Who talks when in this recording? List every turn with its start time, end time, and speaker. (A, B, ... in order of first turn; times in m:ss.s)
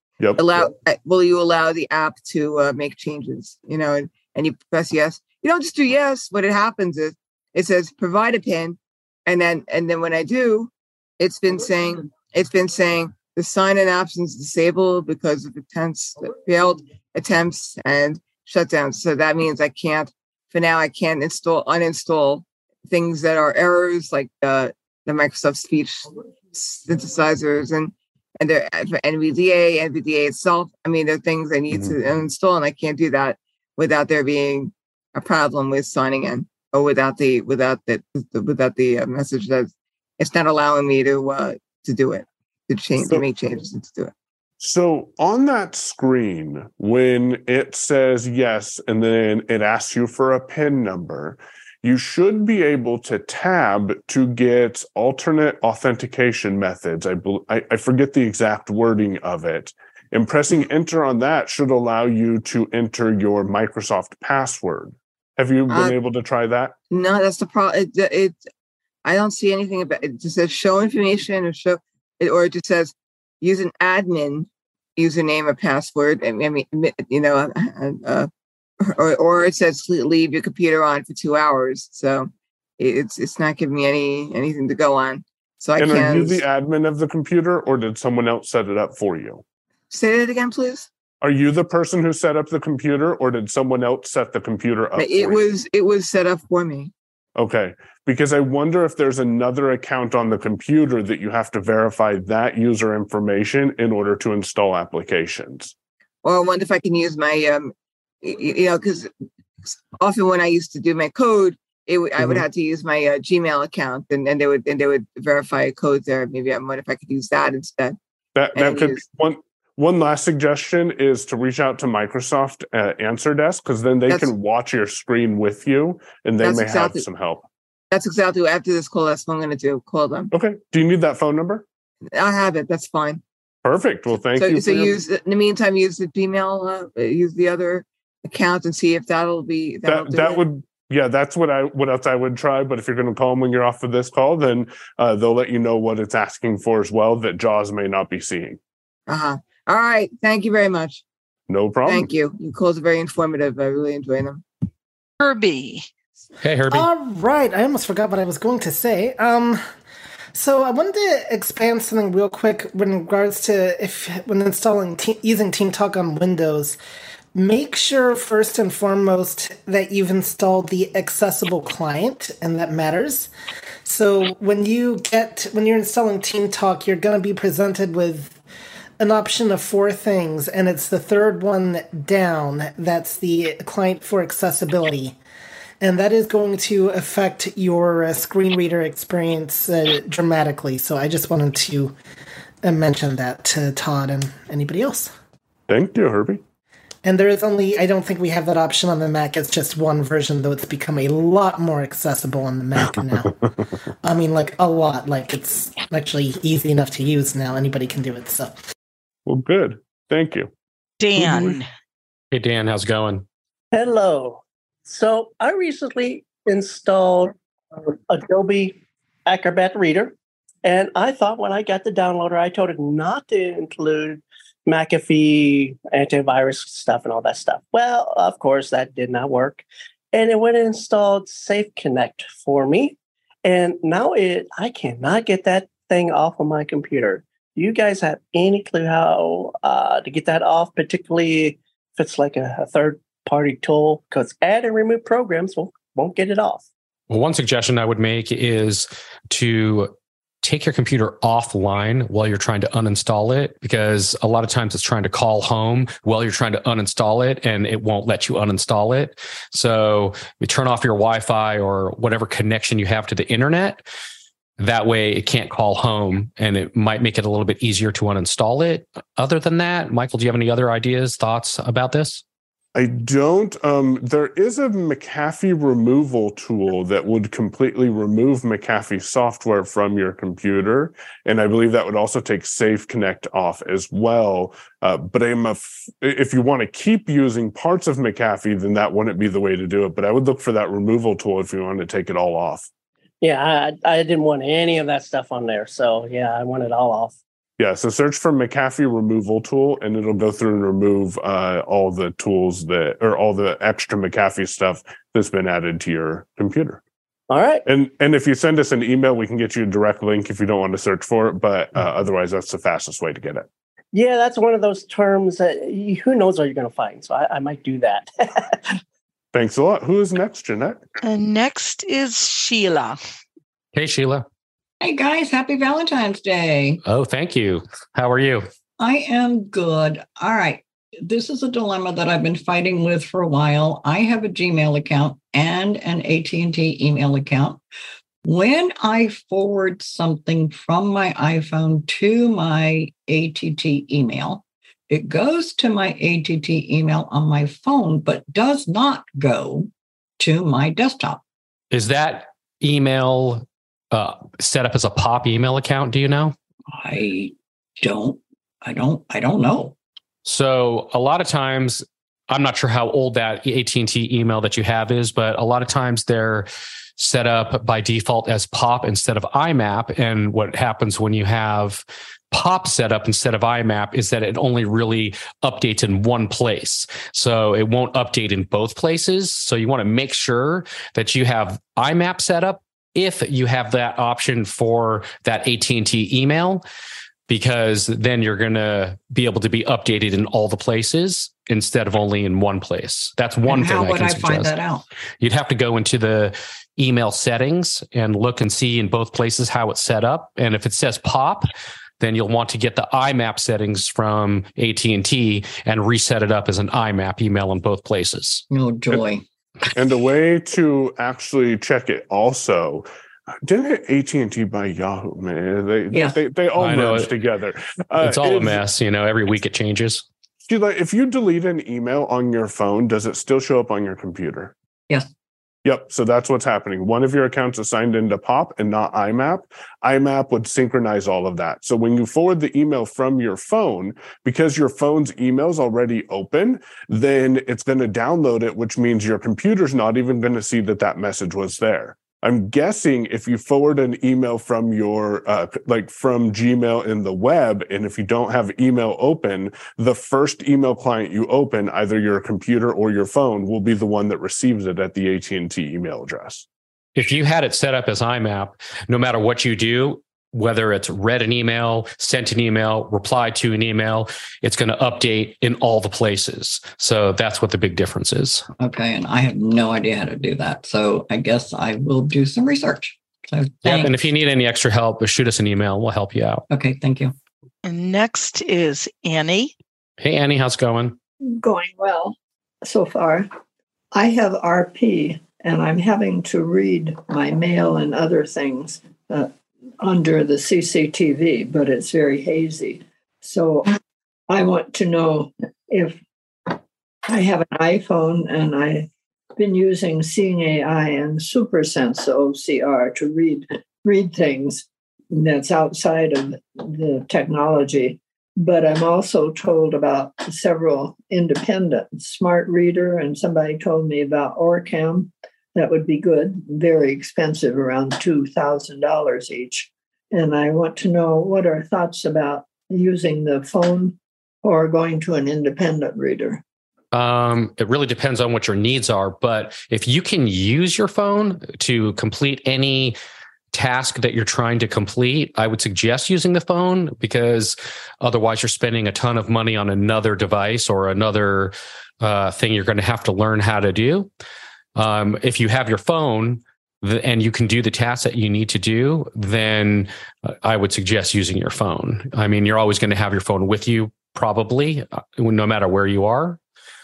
0:00.2-0:00.7 A
0:00.4-0:44.1 B
0:44.6-1:06.7 A
1:05.7-1:05.9 B
1:06.9-1:08.4 B
1:09.0-1:18.3 B
1:18.8-1:26.4 B
1:25.8-1:29.4 A
1:29.9-1:30.9 B
1:31.2-1:35.5 A
1:35.0-1:36.9 B
1:37.4-1:45.7 A
1:46.2-1:49.1 B
1:50.0-1:58.0 B
1:58.4-2:07.4 A
1:58.6-1:59.0 B
2:06.4-2:07.0 B
2:07.9-2:10.3 B
2:10.3-2:11.6 A
2:12.1-2:13.2 B
2:13.6-2:15.0 A
2:14.1-2:20.4 B
2:19.8-2:28.6 A
2:29.1-2:31.0 B
2:31.5-2:32.1 A
2:31.9-2:34.4 B
2:35.2-2:35.9 C
2:36.4-2:36.9 D
2:36.7-2:39.6 E
2:40.4-2:46.8 E
2:47.4-2:53.3 E
2:53.8-2:58.4 E
2:59.0-3:05.1 E
3:05.8-3:11.9 E
3:12.6-3:15.1 E
3:15.7-3:16.4 A
3:17.0-3:23.3 E
3:22.9-3:23.3 A
3:24.0-3:28.6 E
3:29.3-3:30.5 A
3:31.0-3:31.7 C
3:31.2-3:31.6 A
3:32.3-3:33.2 D
3:33.7-4:06.7 F
4:07.1-4:09.9 D
4:10.4-4:23.8 D
4:24.6-4:32.2 D
4:32.8-4:52.7 A
4:53.2-4:57.2 F
4:57.6-5:06.8 A
5:07.3-5:07.6 F
5:07.6-5:13.4 A
5:13.9-5:18.7 F
5:19.3-5:20.8 A
5:21.0-5:23.0 C
5:23.7-5:24.3 D
5:24.8-5:26.8 G
5:26.8-5:28.4 D
5:28.8-5:37.6 G
5:38.2-5:51.2 G
5:51.7-5:56.4 D
5:56.7-5:59.8 G
6:00.2-6:26.6 D
6:27.3-6:34.6 D
6:33.4-6:34.8 G
6:35.2-6:41.5 D
6:42.0-6:48.4 D
6:48.5-6:49.2 G
6:49.7-6:52.9 A
6:53.4-6:58.6 A
6:56.6-6:57.1 D
6:58.0-7:00.0 D
7:00.4-7:04.5 A
7:05.6-7:36.4 A
7:36.9-7:48.4 D
7:48.6-7:54.0 G
7:53.6-7:56.4 D
7:56.5-7:57.1 G
7:57.6-7:59.5 C
8:00.0-8:00.9 D
8:01.4-8:03.3 H
8:03.9-8:13.8 H
8:14.3-8:16.0 H
8:17.1-8:46.4 H
8:46.9-8:53.0 D
8:53.5-9:04.1 D
9:04.8-9:16.4 D